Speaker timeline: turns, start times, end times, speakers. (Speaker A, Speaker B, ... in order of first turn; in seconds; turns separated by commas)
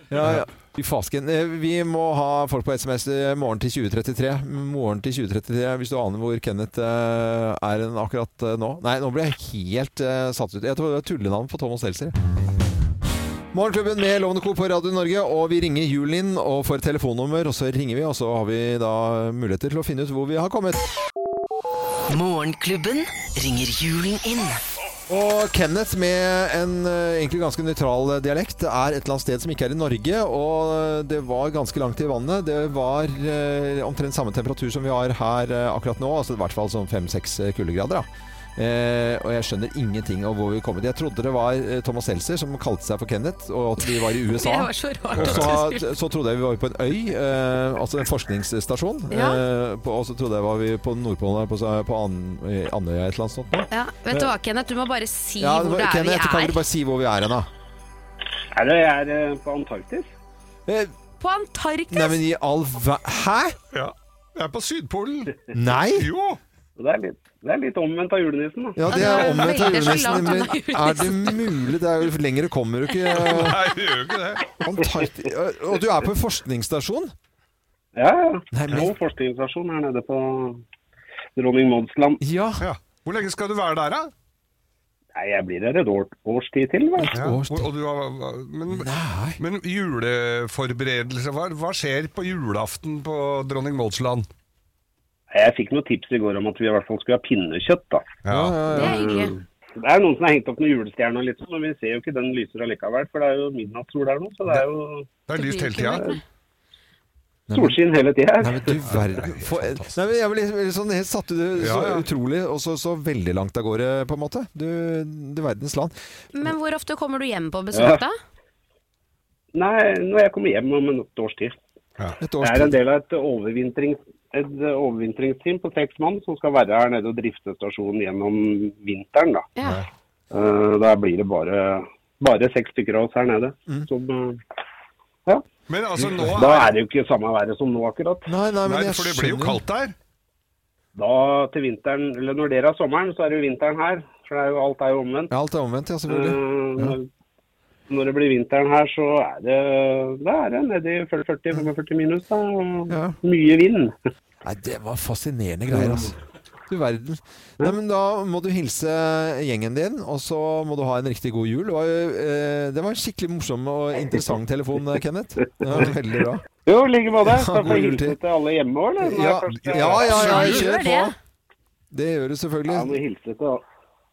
Speaker A: 0.1-12.1, Speaker A: 13.5-20.8, Speaker B: 22.1-24.6, Speaker A: 25.1-54.3, Speaker C: 43.8-45.9, Speaker D: 45.1-45.5, Speaker C: 49.1-49.4, Speaker C: 53.7-56.6, Speaker A: 55.4-57.5, Speaker E: 58.5-60.1, Speaker A: 60.7-60.9, Speaker C: 61.2-62.2, Speaker A: 61.9-63.6, Speaker D: 63.7-65.3, Speaker A: 65.5-66.1, Speaker D: 65.9-66.4, Speaker E: 66.8-68.8, Speaker A: 68.8-73.7, Speaker C: 68.9-71.5, Speaker D: 73.1-74.6, Speaker A: 74.6-77.1, Speaker E: 77.9-80.6, Speaker A: 78.5-78.9, Speaker E: 81.3-82.2, Speaker A: 82.2-82.7, Speaker D: 82.6-84.1, Speaker E: 85.1-87.1, Speaker A: 87.0-87.7, Speaker D: 87.1-94.3, Speaker A: 88.7-89.4, Speaker E: 95.3-98.1, Speaker D: 98.2-98.6, Speaker A: 98.3-99.0, Speaker C: 98.7-99.3, Speaker E: 98.7-105.1, Speaker D: 105.3-106.0, Speaker C: 105.3-106.2, Speaker A: 107.5-107.8, Speaker E: 107.5-108.6, Speaker A: 108.4-115.9, Speaker D: 108.8-110.0, Speaker D: 111.6-112.0, Speaker C: 116.3-118.2, Speaker E: 117.7-118.0, Speaker E: 119.5-121.5, Speaker A: 122.2-122.8, Speaker E: 122.4-129.5, Speaker C: 129.6-129.8, Speaker E: 130.3-134.4, Speaker D: 135.7-136.8, Speaker E: 136.0-138.3, Speaker A: 138.3-139.6, Speaker D: 138.6-139.9, Speaker E: 140.9-145.3, Speaker A: 145.3-147.0, Speaker E: 146.1-147.1, Speaker E: 147.9-153.9, Speaker A: 152.9-153.2, Speaker A: 154.4-156.2, Speaker E: 155.7-156.1, Speaker A: 156.7-166.4, Speaker E: 165.6-165.9, Speaker E: 166.6-170.5, Speaker A: 167.2-168.2, Speaker A: 169.0-171.1, Speaker D: 169.5-170.7, Speaker C: 170.1-171.1, Speaker A: 171.9-172.9, Speaker E: 172.7-173.6